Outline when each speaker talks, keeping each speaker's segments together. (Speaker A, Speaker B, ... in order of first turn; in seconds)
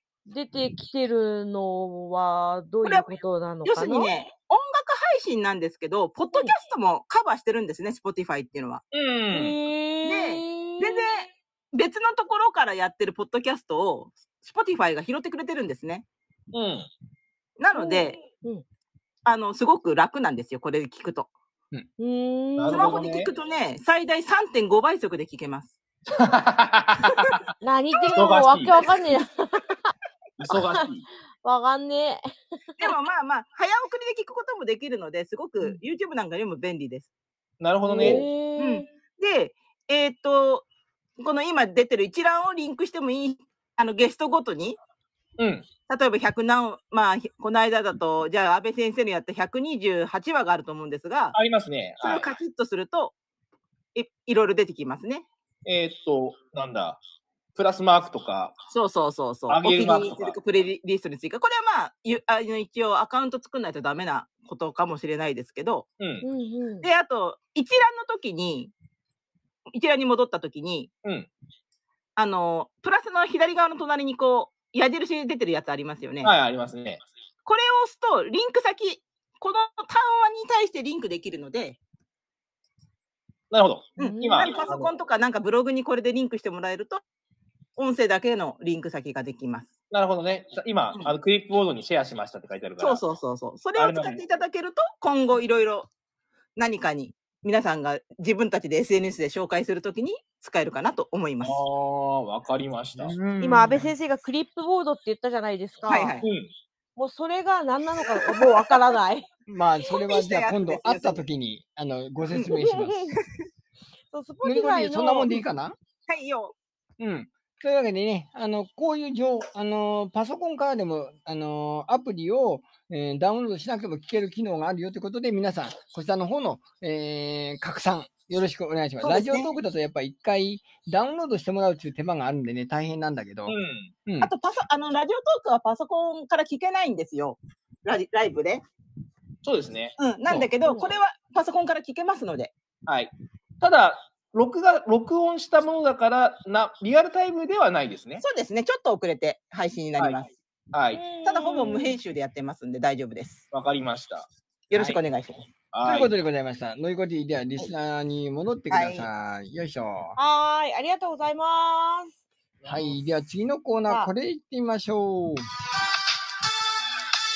Speaker A: 0.3-4.1, 9.3-11.1, 17.7-18.6, 22.0-23.0, 27.6-29.9, 30.6-30.9, 31.4-32.9, 37.9-38.9, 66.2-66.9, 84.0-84.5, 103.4-106.1, 107.0-109.3, 112.5-113.2, 114.1-115.3, 150.9-152.0, 160.2-162.2
Speaker B: 2.8-8.8, 10.0-16.0, 17.6-18.2, 19.2-21.3, 22.7-25.8, 32.8-37.1, 38.0-40.7, 41.2-44.8, 45.9-51.4, 52.0-53.1, 53.9-55.3, 58.7-65.9, 66.8-68.7, 69.7-70.9, 72.2-76.3, 77.5-81.8, 84.0-87.0, 87.8-89.7, 92.8-95.9, 96.5-101.6, 105.9-106.3, 108.2-108.8, 110.0-111.2, 116.1-116.5, 129.0-129.5, 134.2-138.6, 140.0-142.5, 148.2-150.3, 151.2-153.4, 154.7-155.5, 158.7-159.1
Speaker C: 8.9-9.6, 16.5-16.9, 22.6-23.3, 26.1-27.4, 28.1-28.8, 30.4-31.0, 37.6-38.2, 45.4-45.7, 51.3-52.3, 55.6-57.0, 57.5-58.5, 59.5-60.4, 66.0-66.2, 76.2-77.0, 83.5-84.9, 89.9-93.0, 93.7-94.2, 101.4-103.2, 106.2-106.5, 133.5-133.9, 139.4-140.4, 142.8-148.2, 150.7-151.0, 153.5-154.3, 155.7-156.1
Speaker D: 103.0-103.9, 109.5-113.0, 114.4-115.7, 117.0-134.3, 155.8-160.2, 162.7-165.5